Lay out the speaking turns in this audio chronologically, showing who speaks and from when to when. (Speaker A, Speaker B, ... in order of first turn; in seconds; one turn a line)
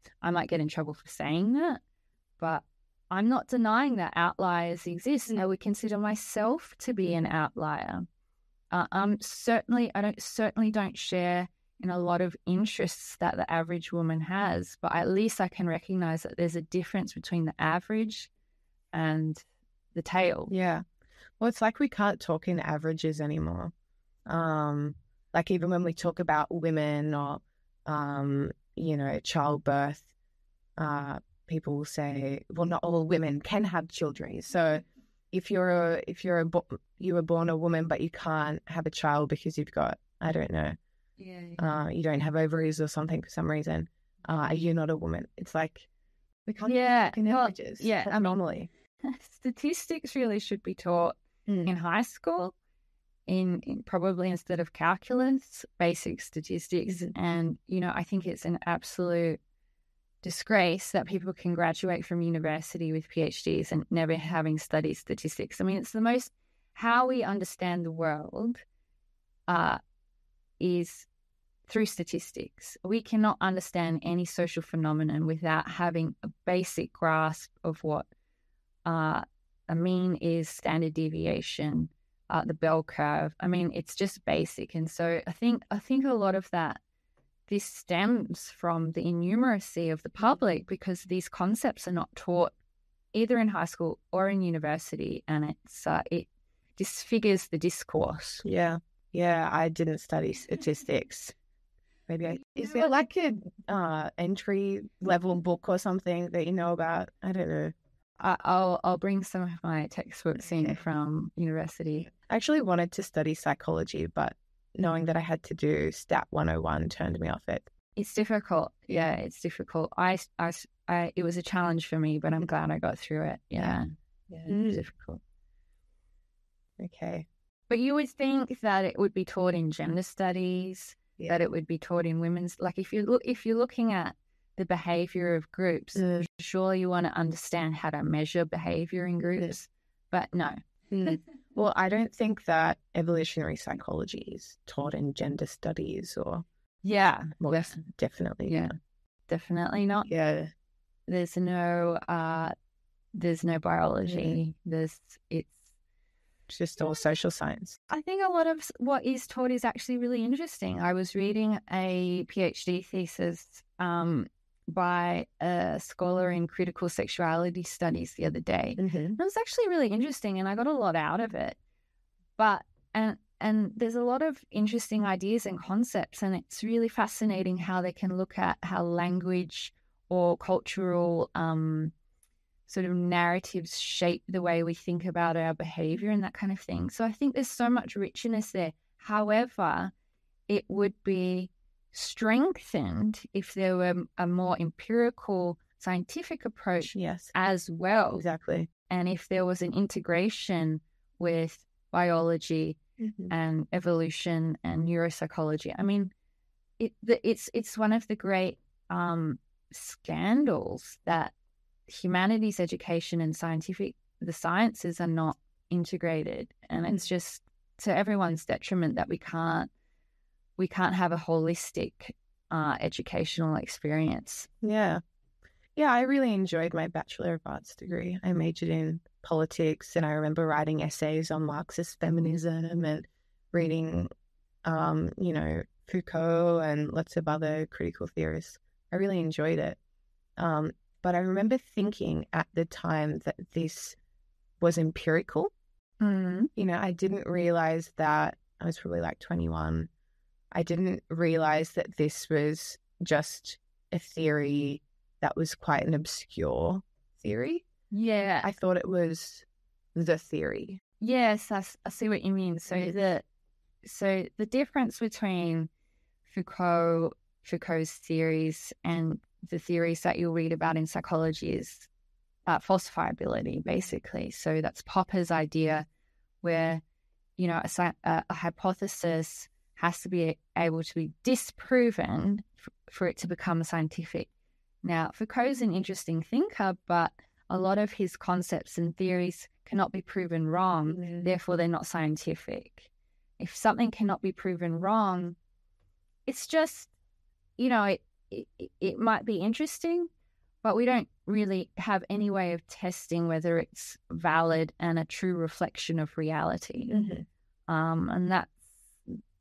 Speaker A: 0.2-1.8
Speaker A: 2.4-8.1
Speaker A: 8.7-18.3
Speaker A: 18.9-20.5
Speaker B: 20.5-20.8
Speaker B: 21.4-23.7
Speaker B: 24.3-30.1
Speaker B: 30.8-40.8
Speaker A: 41.2-41.6
Speaker B: 41.6-45.9
Speaker B: 46.5-48.7
Speaker A: 46.7-48.4
Speaker A: 49.0-52.5
Speaker A: 53.3-59.4
Speaker B: 56.9-57.1
Speaker A: 60.2-68.6
Speaker A: 69.5-69.8
Speaker A: 70.6-71.1
Speaker A: 71.7-78.1
Speaker A: 78.8-86.8
Speaker A: 87.5-92.5
Speaker A: 93.1-98.4
Speaker B: 98.4-101.3
Speaker B: 102.1-107.7
Speaker A: 102.6-102.9
Speaker A: 108.2-112.1
Speaker B: 112.3-117.7
Speaker A: 118.0-125.2
Speaker B: 124.5-124.8
Speaker B: 126.8-127.3
Speaker A: 127.7-141.1
Speaker B: 135.9-136.2
Speaker B: 140.9-146.4
Speaker A: 146.8-147.7
Speaker B: 147.4-148.7
Speaker A: 148.4-148.7
Speaker A: 149.3-150.1
Speaker B: 150.1-150.5
Speaker A: 151.1-152.5
Speaker A: 153.1-155.6
Speaker B: 154.0-154.4
Speaker B: 156.5-157.8
Speaker A: 157.9-171.6
Speaker B: 168.8-169.2
Speaker A: 172.4-181.9
Speaker A: 182.7-189.9
Speaker A: 190.5-198.2
Speaker B: 196.9-197.3
Speaker B: 198.1-198.7
Speaker A: 198.9-202.8
Speaker B: 203.0-203.3
Speaker A: 203.3-206.1
Speaker A: 206.8-211.3
Speaker A: 211.9-219.7
Speaker A: 220.6-224.5
Speaker B: 224.6-225.0
Speaker B: 225.8-234.1
Speaker B: 234.6-239.8
Speaker B: 240.4-244.0
Speaker B: 244.6-245.5
Speaker A: 246.0-246.5
Speaker B: 246.6-249.9
Speaker B: 250.5-257.6
Speaker A: 257.9-258.5
Speaker B: 258.4-260.8
Speaker A: 261.0-263.2
Speaker A: 263.8-265.7
Speaker A: 266.2-271.9
Speaker A: 272.5-275.9
Speaker A: 276.4-276.8
Speaker A: 277.4-284.3
Speaker A: 284.8-295.4
Speaker B: 291.0-291.2
Speaker A: 296.2-296.9
Speaker A: 297.6-300.1
Speaker A: 300.6-306.9
Speaker B: 306.9-307.2
Speaker A: 307.7-309.2